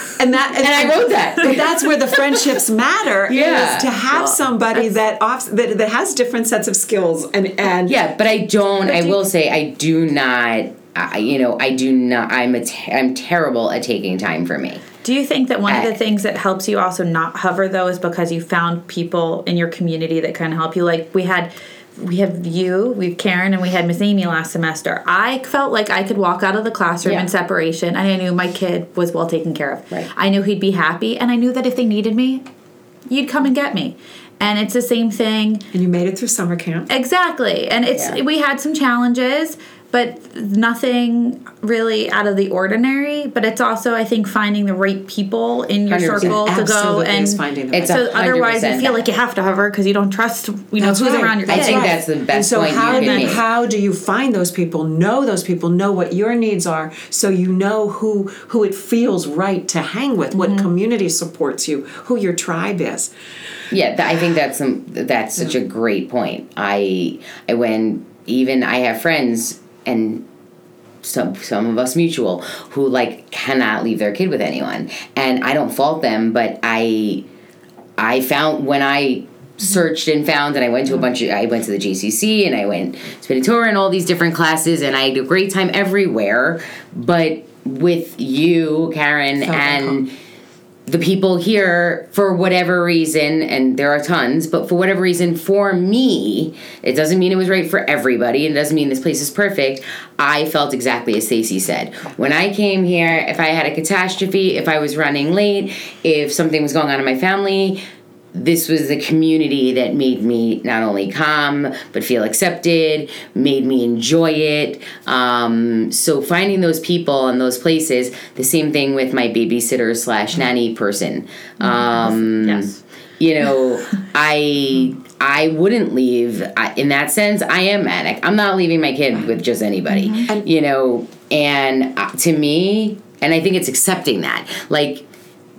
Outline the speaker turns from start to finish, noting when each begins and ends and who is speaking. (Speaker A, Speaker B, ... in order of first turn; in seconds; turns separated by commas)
Speaker A: 0.2-8.0, Speaker B: 0.6-1.6, Speaker B: 3.3-3.9, Speaker B: 7.9-14.8, Speaker C: 8.9-9.2, Speaker C: 15.0-32.4, Speaker B: 15.7-15.9, Speaker B: 27.0-27.3, Speaker C: 33.1-35.7, Speaker A: 35.7-36.9, Speaker C: 36.9-52.0, Speaker B: 45.9-46.4, Speaker A: 46.2-47.9, Speaker B: 47.7-49.0, Speaker A: 50.8-63.1, Speaker B: 51.5-53.4, Speaker C: 52.9-53.4, Speaker C: 60.3-60.7, Speaker B: 63.7-70.2, Speaker B: 71.0-77.2, Speaker B: 78.0-90.1, Speaker A: 89.4-90.0, Speaker B: 90.9-107.8, Speaker B: 108.3-135.1, Speaker C: 121.6-122.8, Speaker C: 129.9-130.3